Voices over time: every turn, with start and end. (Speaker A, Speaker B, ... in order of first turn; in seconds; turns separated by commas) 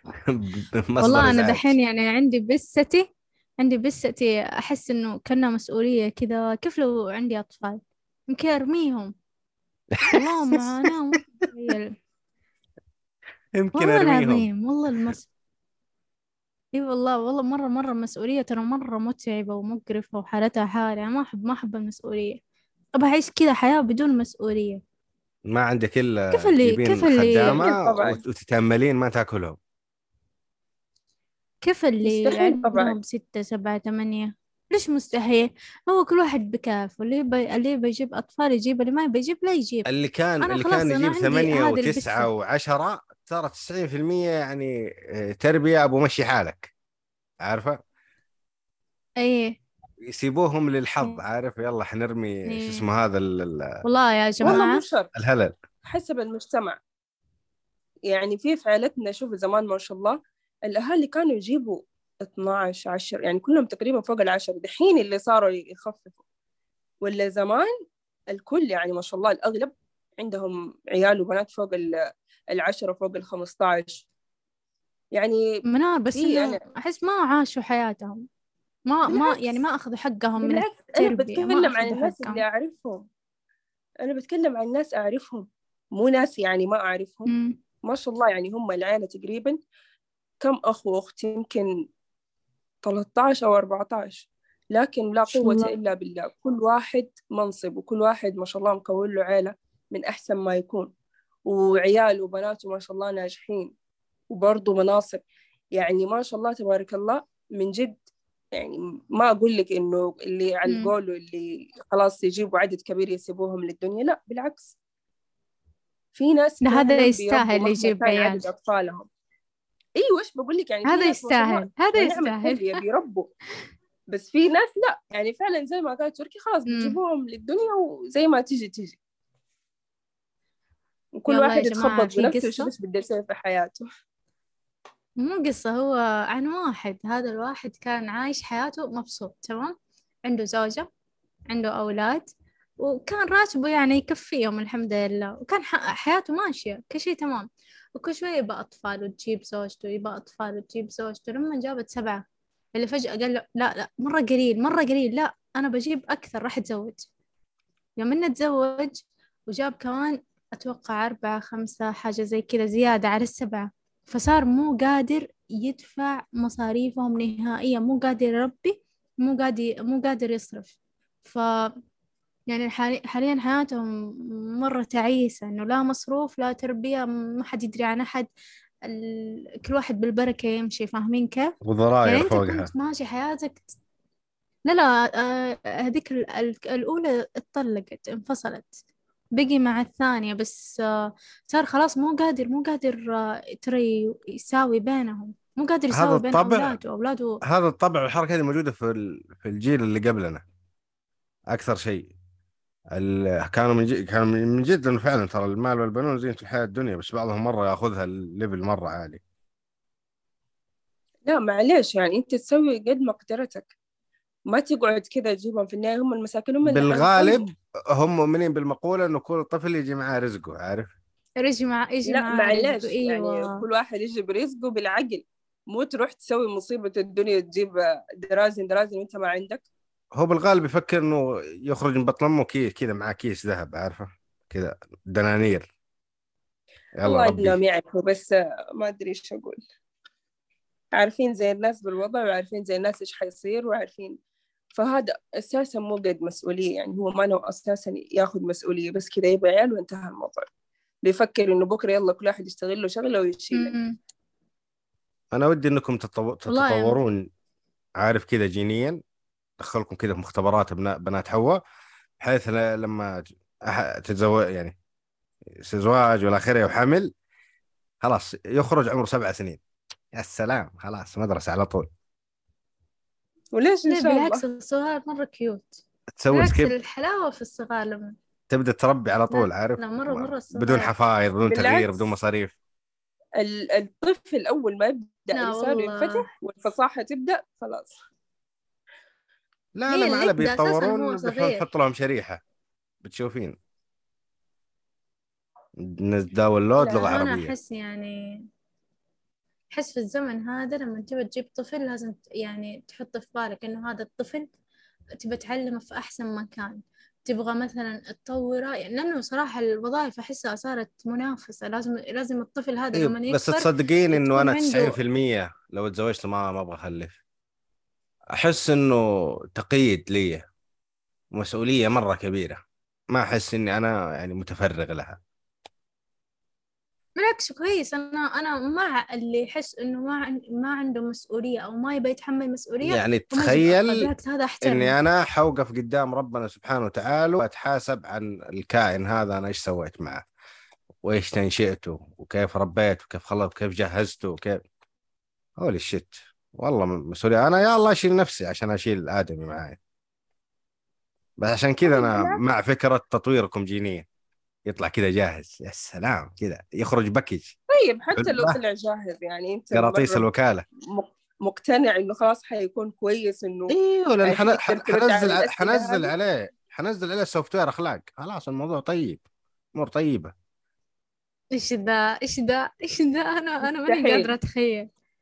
Speaker A: 0.1-1.8, Speaker B: 1.0-3.1, Speaker B: 3.6-9.1, Speaker A: 9.9-10.9, Speaker B: 10.0-12.0, Speaker A: 13.6-14.5, Speaker B: 13.8-15.3, Speaker B: 16.7-22.4, Speaker B: 22.9-24.8, Speaker A: 25.5-29.6, Speaker B: 26.3-27.6, Speaker C: 27.4-28.2, Speaker B: 31.6-39.9, Speaker C: 32.0-33.0, Speaker A: 39.9-46.7, Speaker B: 40.4-42.3, Speaker A: 47.4-47.8, Speaker B: 49.2-49.6, Speaker A: 50.1-53.8, Speaker B: 52.5-52.8, Speaker B: 53.8-54.9, Speaker C: 54.4-55.1, Speaker A: 55.1-55.5, Speaker C: 55.8-56.8, Speaker C: 58.1-66.2, Speaker C: 67.0-67.7, Speaker C: 68.3-72.0, Speaker C: 72.5-74.1, Speaker C: 75.1-75.4, Speaker B: 75.7-78.3, Speaker C: 76.2-76.6, Speaker B: 78.9-82.4, Speaker C: 79.1-79.6, Speaker C: 80.4-83.0, Speaker C: 84.0-87.3, Speaker B: 87.3-87.6, Speaker C: 87.9-89.6, Speaker C: 90.4-91.7, Speaker C: 92.8-100.9, Speaker B: 95.3-95.7, Speaker C: 101.5-103.7, Speaker C: 104.3-105.2, Speaker C: 105.8-108.0, Speaker C: 108.5-114.7, Speaker C: 116.1-119.1, Speaker B: 116.7-118.4, Speaker C: 120.0-123.3, Speaker B: 120.9-122.8, Speaker C: 124.1-129.0, Speaker B: 126.7-127.0, Speaker C: 131.2-133.9, Speaker B: 131.3-132.7, Speaker B: 135.2-139.8, Speaker B: 140.3-140.9, Speaker B: 141.5-152.2, Speaker B: 152.8-157.1, Speaker B: 158.0-171.8, Speaker B: 172.5-178.3, Speaker B: 178.8-183.8, Speaker A: 181.6-182.7, Speaker B: 184.7-188.7, Speaker B: 189.4-197.4, Speaker A: 195.9-196.8, Speaker A: 197.4-200.4, Speaker A: 201.5-202.1, Speaker A: 202.9-209.2, Speaker C: 211.2-213.7, Speaker C: 214.5-217.5, Speaker A: 216.7-220.9, Speaker B: 221.4-223.6, Speaker C: 222.1-229.7, Speaker A: 230.2-235.7, Speaker A: 237.0-237.6, Speaker C: 237.0-239.6, Speaker C: 240.9-244.2, Speaker C: 244.7-250.5, Speaker C: 251.1-253.7, Speaker B: 253.5-253.9, Speaker A: 255.3-257.3, Speaker B: 256.5-257.0, Speaker A: 258.0-259.0, Speaker A: 259.6-261.6, Speaker A: 262.2-264.8, Speaker A: 265.6-267.1, Speaker A: 268.0-269.6, Speaker A: 270.1-271.9, Speaker C: 273.5-274.4, Speaker B: 273.9-275.8, Speaker A: 276.2-276.7, Speaker B: 276.3-278.2, Speaker A: 278.5-282.6, Speaker B: 279.3-280.9, Speaker C: 281.4-282.1, Speaker C: 283.4-288.0, Speaker B: 285.3-286.2, Speaker A: 289.8-292.4, Speaker B: 289.9-291.7, Speaker A: 293.0-293.6, Speaker A: 295.8-297.5, Speaker B: 296.8-298.5, Speaker B: 299.7-304.5, Speaker B: 305.2-315.0, Speaker A: 312.9-317.2, Speaker A: 318.4-320.4, Speaker A: 321.4-322.6, Speaker A: 323.1-325.2, Speaker B: 327.2-334.9, Speaker A: 332.8-334.1, Speaker A: 334.6-340.2, Speaker A: 341.0-344.6, Speaker A: 345.6-349.8, Speaker A: 351.4-354.1, Speaker C: 351.8-352.4, Speaker A: 354.7-357.6, Speaker C: 357.7-360.2, Speaker A: 358.1-358.6, Speaker A: 359.7-360.6, Speaker C: 360.9-366.1, Speaker A: 363.7-369.2, Speaker A: 369.8-370.3, Speaker B: 371.5-374.9, Speaker C: 373.7-374.3